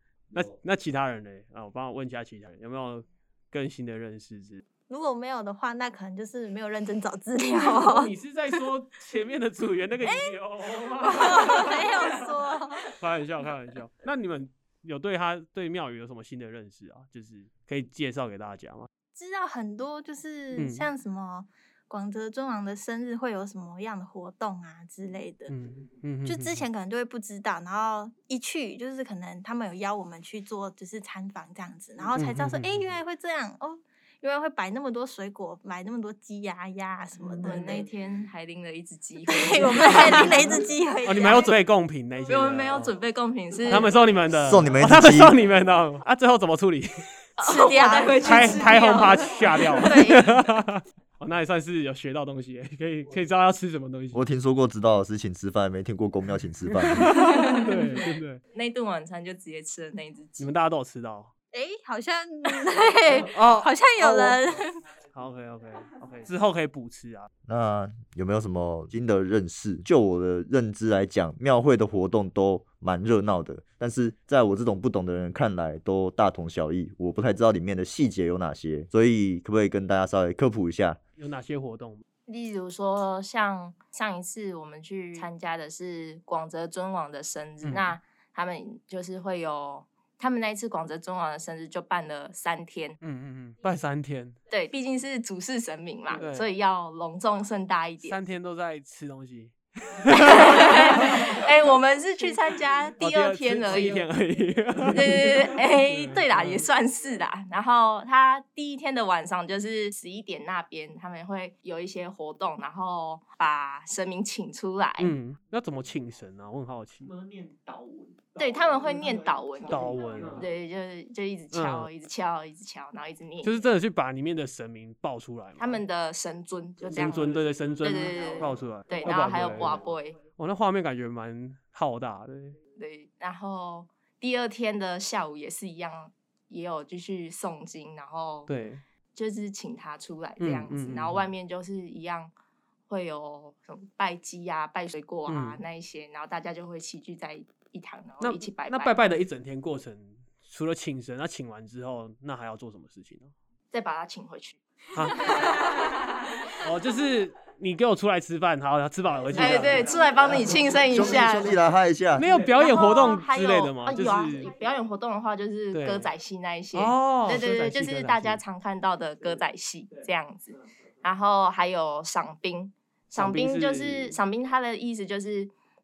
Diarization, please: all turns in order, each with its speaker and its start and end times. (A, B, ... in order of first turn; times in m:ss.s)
0:00.3-0:04.6 A
0:04.9-0:08.1 B
0:07.8-0:12.3 A
0:10.0-0:13.0 B
0:12.9-0:18.9 A
0:19.2-0:25.5 B
0:20.5-0:20.9 A
0:25.5-0:26.7 A
0:26.2-0:37.8 B
0:32.2-0:32.8 A
0:37.4-0:40.6 C
0:39.3-0:41.5 B
0:41.0-0:42.9 A
0:42.3-0:43.9 C
0:43.7-0:47.0 A
0:44.3-0:45.4 D
0:47.4-0:50.4 C
0:47.4-0:50.2 B
0:48.2-0:54.2 A
0:54.1-0:57.1 D
0:56.7-0:58.4 A
0:57.2-0:57.8 C
0:58.5-1:00.5 C
1:00.4-1:01.3 A
1:01.5-1:04.8 B
1:03.2-1:04.4 A
1:05.1-1:07.3 A
1:07.5-1:21.0 D
1:21.2-1:22.0 A
1:22.3-1:33.0 C
1:27.6-1:28.0 A
1:33.0-1:34.4 A
1:34.5-1:38.2 C
1:36.1-1:36.5 A
1:38.0-1:41.4 A
1:40.1-1:44.0 C
1:43.0-1:46.7 A
1:44.9-1:55.1 C
1:55.0-1:57.1 A
1:57.0-2:00.5 E
1:58.4-2:03.6 C
1:59.7-2:00.5 A
2:01.5-2:01.9 A
2:03.4-2:05.8 A
2:05.6-2:10.2 C
2:06.9-2:09.8 A
2:07.0-2:07.6 E
2:10.4-2:12.6 A
2:12.8-2:18.5 C
2:18.5-2:18.8 A
2:19.2-2:22.3 C
2:20.4-2:21.2 A
2:22.9-2:29.0 C
2:25.3-2:25.6 A
2:28.2-2:33.3 A
2:33.7-2:36.5 C
2:34.9-2:35.5 A
2:36.5-2:40.0 A
2:39.4-2:41.5 C
2:40.9-2:42.3 D
2:42.2-2:44.5 A
2:42.6-2:55.5 C
2:45.7-2:46.1 A
2:46.7-2:48.4 A
2:53.1-2:54.2 A